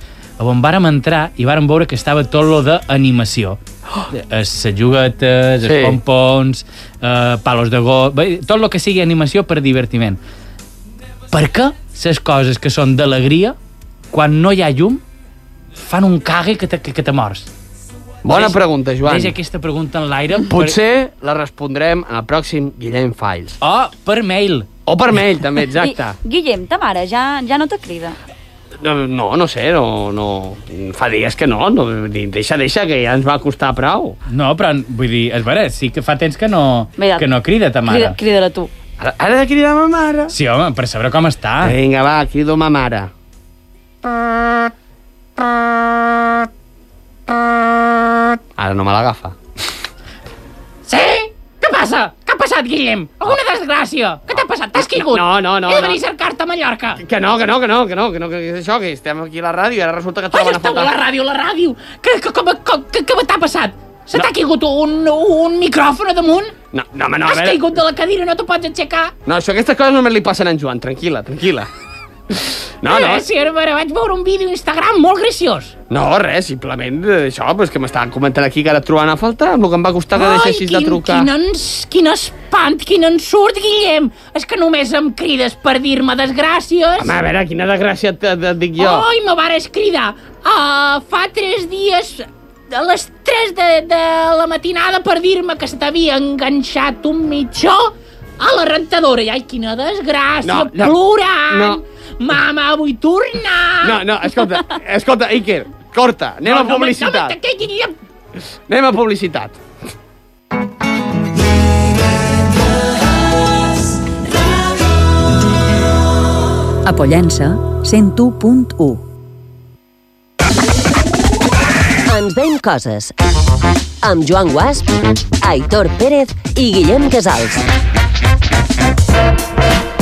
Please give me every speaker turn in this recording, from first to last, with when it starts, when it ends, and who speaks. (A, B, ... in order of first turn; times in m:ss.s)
0:00.4-0:10.2 A
0:05.6-0:06.0 B
0:11.3-0:13.6 A
0:14.1-0:15.0 A
0:15.8-0:17.5 A
0:18.2-0:19.3 B
0:18.3-0:20.8 A
0:20.5-0:23.6 B
0:23.6-0:24.7 A
0:24.8-0:26.2 B
0:25.8-0:28.2 C
0:28.8-0:34.2 B
0:34.3-0:38.2 A
0:37.0-0:37.3 C
0:37.8-0:38.7 C
0:39.0-0:40.3 B
0:40.3-0:41.8 A
0:41.6-0:43.1 B
0:44.0-0:44.5 B
0:45.4-0:46.4 B
0:48.6-0:49.4 B
0:50.8-0:57.0 A
0:55.0-0:56.0 B
0:57.0-1:00.9 B
1:00.3-1:06.5 A
1:06.7-1:07.7 B
1:07.2-1:09.1 A
1:09.2-1:11.7 B
1:12.3-1:13.2 B
1:12.8-1:15.7 A
1:15.9-1:21.3 B
1:20.1-1:27.1 A
1:27.0-1:29.1 B
1:28.8-1:44.0 A
1:40.4-1:41.8 B
1:43.8-1:47.4 B
1:46.4-1:47.9 A
1:48.7-1:49.6 B
1:56.8-1:59.0 D
2:02.0-2:03.1 E
2:04.0-2:04.9 E
2:05.4-2:07.7 E